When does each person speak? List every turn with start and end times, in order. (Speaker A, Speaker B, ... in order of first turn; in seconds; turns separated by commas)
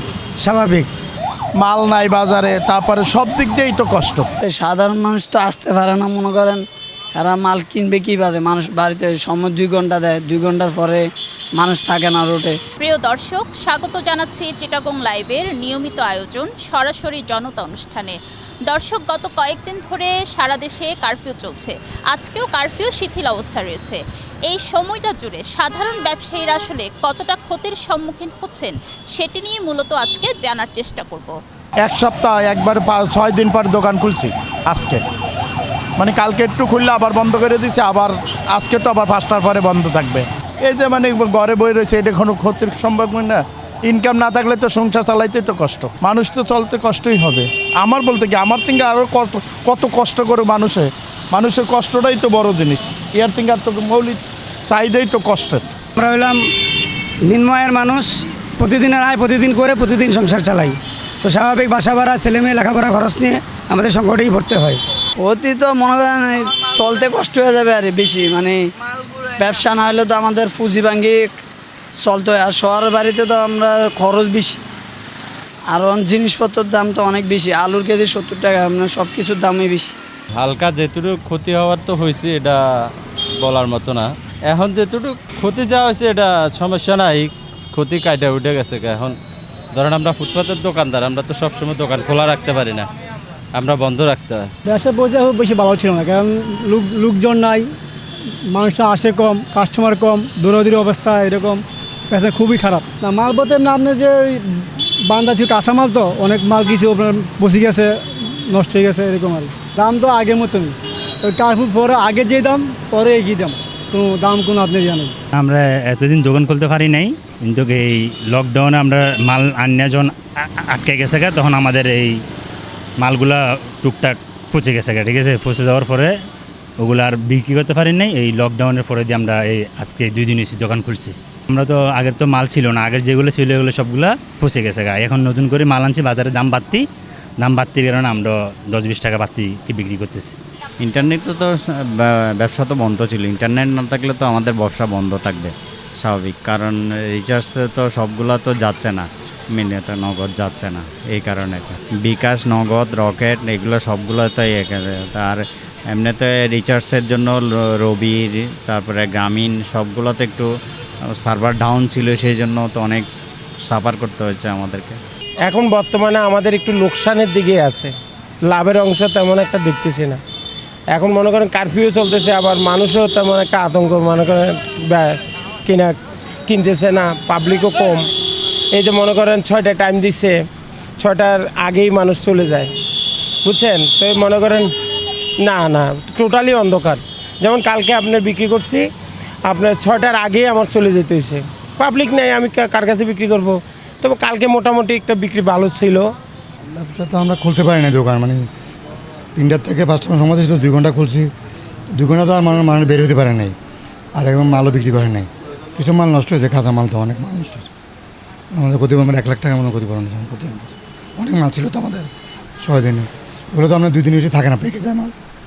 Speaker A: 0.4-0.9, Speaker B: 1.6-4.3, Speaker C: 4.4-6.6, Speaker C: 7.2-11.0, Speaker C: 11.6-12.6, Speaker D: 12.8-18.2, Speaker D: 18.7-31.4, Speaker B: 31.8-35.0, Speaker B: 36.0-55.7, Speaker A: 56.0-56.5, Speaker A: 57.2-64.8, Speaker C: 65.2-68.6, Speaker C: 69.3-71.3, Speaker C: 72.0-74.6, Speaker C: 75.7-79.9, Speaker E: 80.4-82.5, Speaker E: 83.4-89.1, Speaker E: 89.8-92.8, Speaker E: 93.6-94.4, Speaker F: 94.7-97.7, Speaker F: 98.5-115.2, Speaker G: 115.3-122.2, Speaker G: 123.0-126.2, Speaker G: 126.8-136.8, Speaker G: 137.4-140.4, Speaker H: 140.8-160.5, Speaker H: 161.2-163.1, Speaker H: 163.7-165.0, Speaker I: 165.5-167.9, Speaker I: 168.5-170.2, Speaker I: 170.9-178.1, Speaker I: 178.7-180.4, Speaker I: 181.0-182.7, Speaker I: 183.4-184.7, Speaker I: 185.4-188.9, Speaker I: 189.4-196.1, Speaker J: 196.7-198.5, Speaker J: 199.3-201.3, Speaker J: 201.9-203.5, Speaker J: 204.2-207.7, Speaker J: 208.5-212.1, Speaker J: 212.6-215.1